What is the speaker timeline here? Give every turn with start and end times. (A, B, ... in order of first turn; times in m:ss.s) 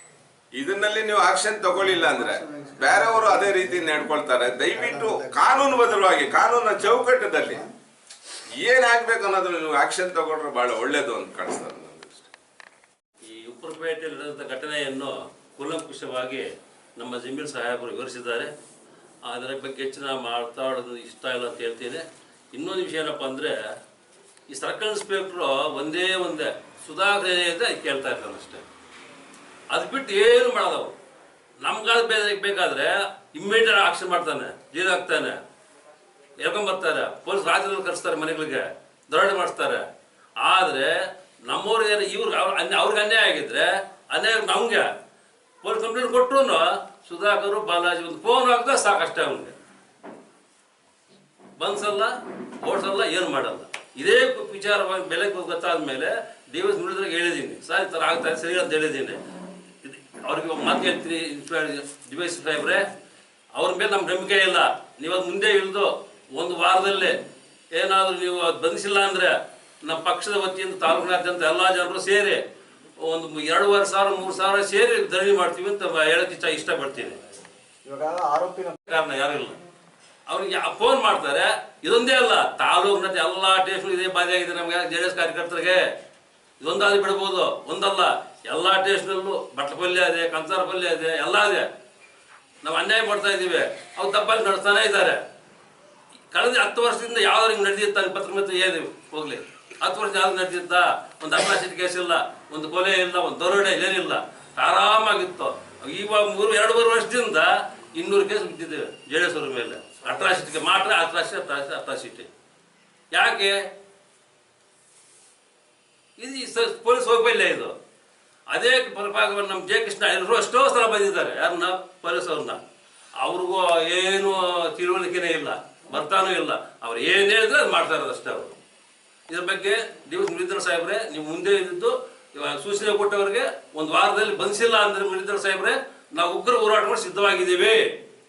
0:00.6-0:07.6 A
0:01.9-0:03.9 B
0:04.7-0:05.8 B
0:08.6-0:12.3 A
0:13.2-0:18.5 C
0:19.2-0:23.6 C
0:24.5-0:28.7 C
0:29.7-0:31.0 C
0:31.6-0:35.4 C
0:36.4-0:39.9 C
0:40.4-0:44.9 C
0:45.6-0:49.6 C
0:51.6-0:59.2 C
0:59.8-1:02.9 C
1:03.6-1:07.2 C
1:07.7-1:12.4 C
1:13.0-1:17.2 C
1:17.8-1:18.8 B
1:18.9-1:19.6 C
1:20.3-1:25.9 C
1:26.6-1:31.7 C
1:32.6-1:35.2 C
1:36.3-1:52.3 C
1:53.1-1:53.7 C
1:56.2-1:57.7 C
1:58.5-2:02.6 C
2:03.2-2:08.6 C
2:09.3-2:18.0 C